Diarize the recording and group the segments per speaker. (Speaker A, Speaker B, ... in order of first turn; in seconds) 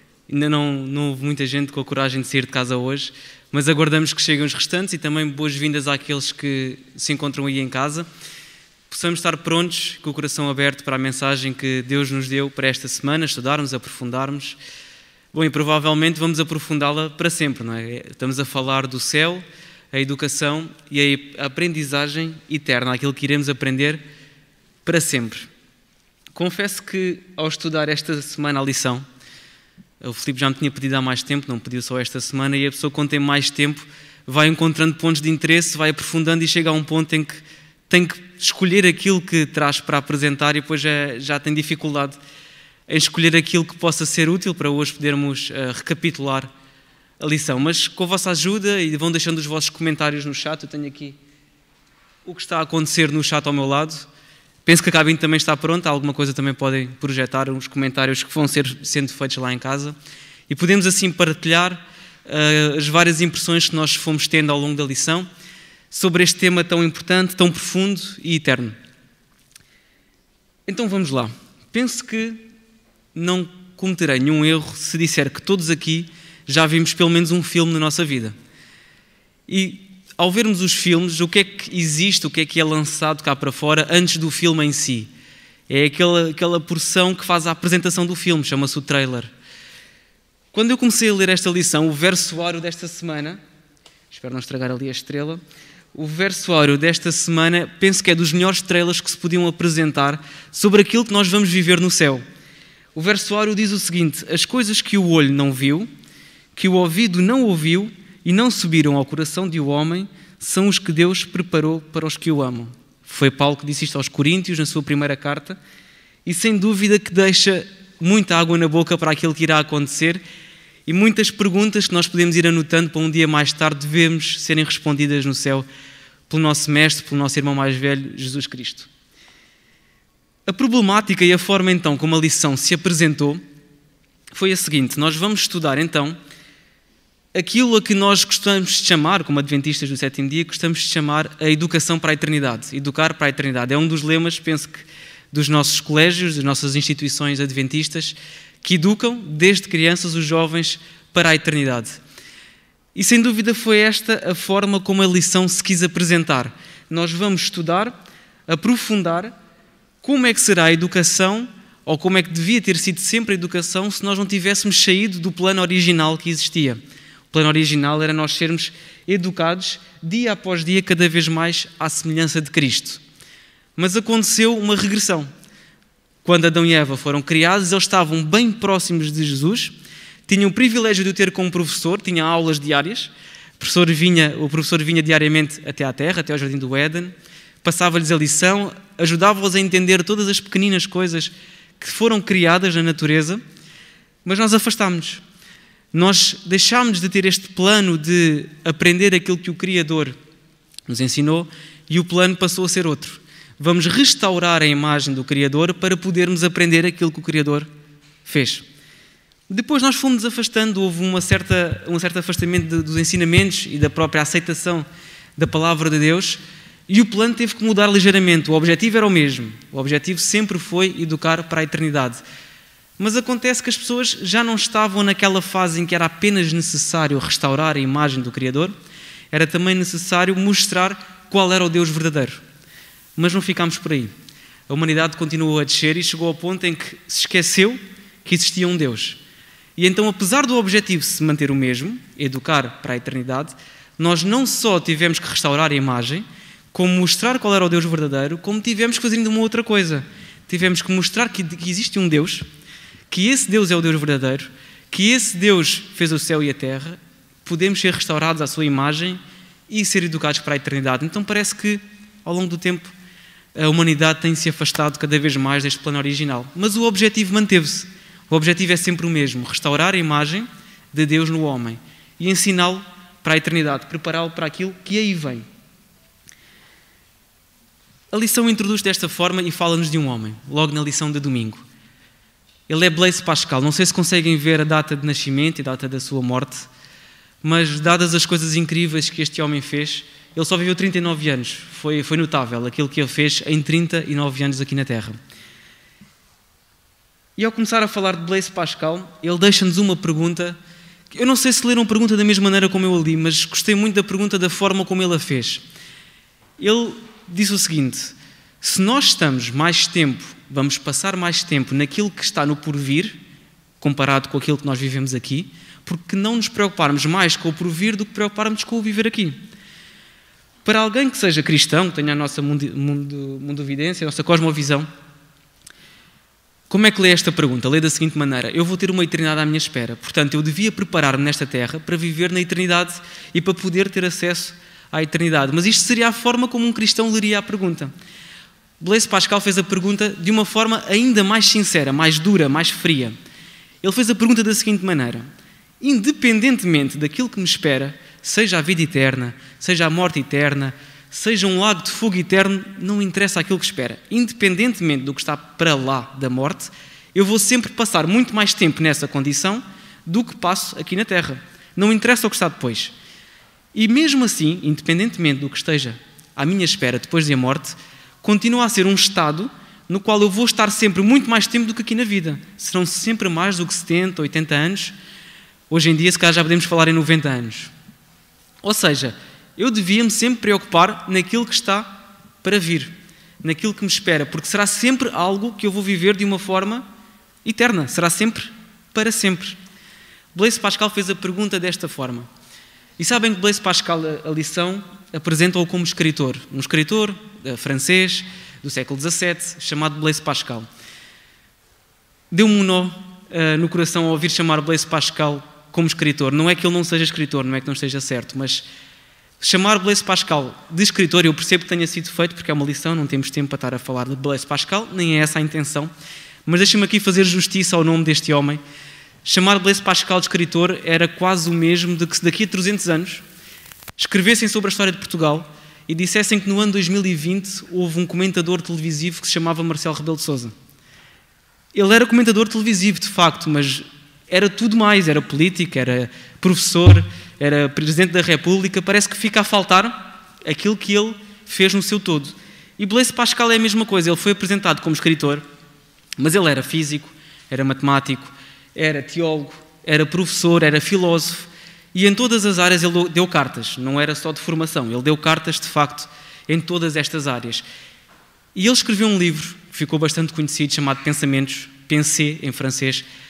Speaker A: 0.3-8.1, 8.9-14.6, 15.3-24.0, 24.8-25.5, 26.3-29.0, 30.0-42.2, 42.9-46.5, 47.2-51.2, 52.2-54.0, 54.6-60.0, 60.5-65.3, 65.9-68.8, 70.7-72.4, 73.1-78.3, 79.5-85.1, 85.7-89.3, 90.5-93.4, 94.1-95.4, 95.9-102.2, 102.9-105.9, 106.5-115.6, 116.2-120.2, 120.8-125.7, 126.3-128.9, 130.5-133.4, 134.3-136.2, 137.3-152.0, 152.9-157.9, 158.5-159.3, 160.0-173.0, 173.8-175.3, 176.2-179.7, 180.3-193.4, 194.2-195.2, 195.9-200.2, 200.9-207.7, 208.2-208.6, 209.5-214.8, 215.4-222.2, 223.0-228.7, 229.3-232.4, 233.2-234.1, 234.7-239.2, 239.8-252.4, 253.1-262.9, 263.5-275.4, 278.1-281.6, 282.7-286.7, 287.4-295.2, 297.4-300.6, 301.1-305.6, 306.6-313.2, 313.8-319.4, 320.6-324.9, 326.7-337.9, 338.8-343.1, 343.8-345.3, 345.8-362.9, 363.7-374.9, 375.7-377.7, 378.6-386.8, 387.4-389.6, 390.3-392.3, 393.0-400.7, 402.3-408.6, 409.4-415.9, 416.4-418.6, 419.2-423.2, 424.0-430.5, 431.7-445.4, 446.2-457.6, 458.5-463.0